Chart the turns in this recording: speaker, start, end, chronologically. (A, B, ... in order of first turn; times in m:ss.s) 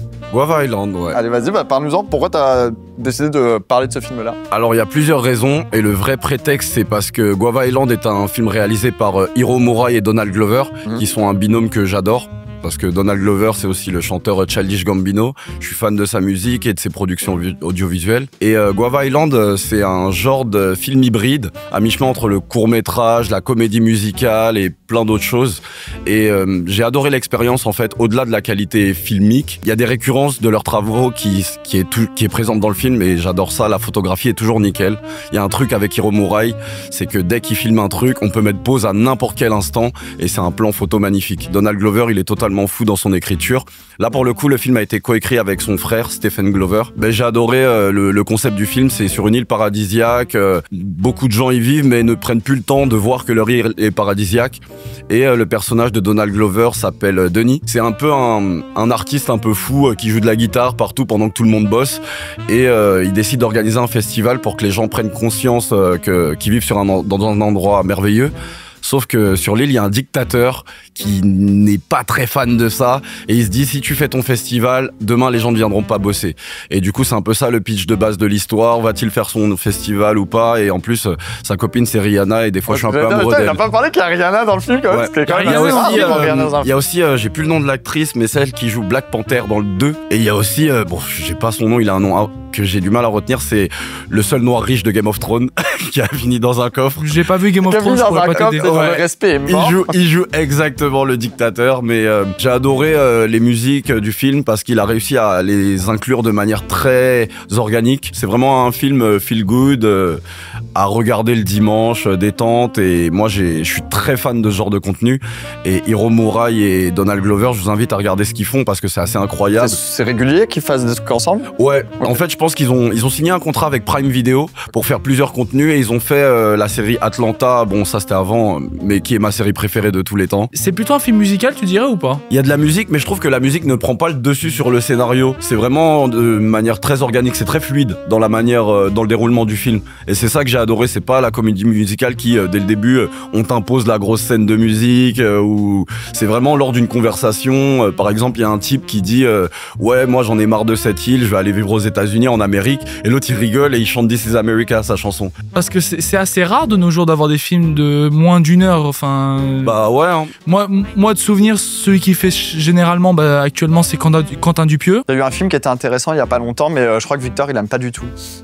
0:00.3-0:01.2 A
0:01.1-0:04.4 B
0:04.5-1:23.6 A
1:22.7-1:26.7 B
1:24.9-1:37.1 A
1:25.3-1:26.2 C
1:37.0-1:38.8 C
1:37.6-1:39.8 B
1:38.4-1:50.2 A
1:50.7-1:59.8 A
1:59.6-2:01.5 B
2:01.6-2:10.5 A
2:10.5-2:12.2 C
2:12.3-2:35.3 A
2:35.5-2:39.7 C
2:39.6-2:40.3 A
2:40.4-2:45.0 C
2:45.1-2:48.1 B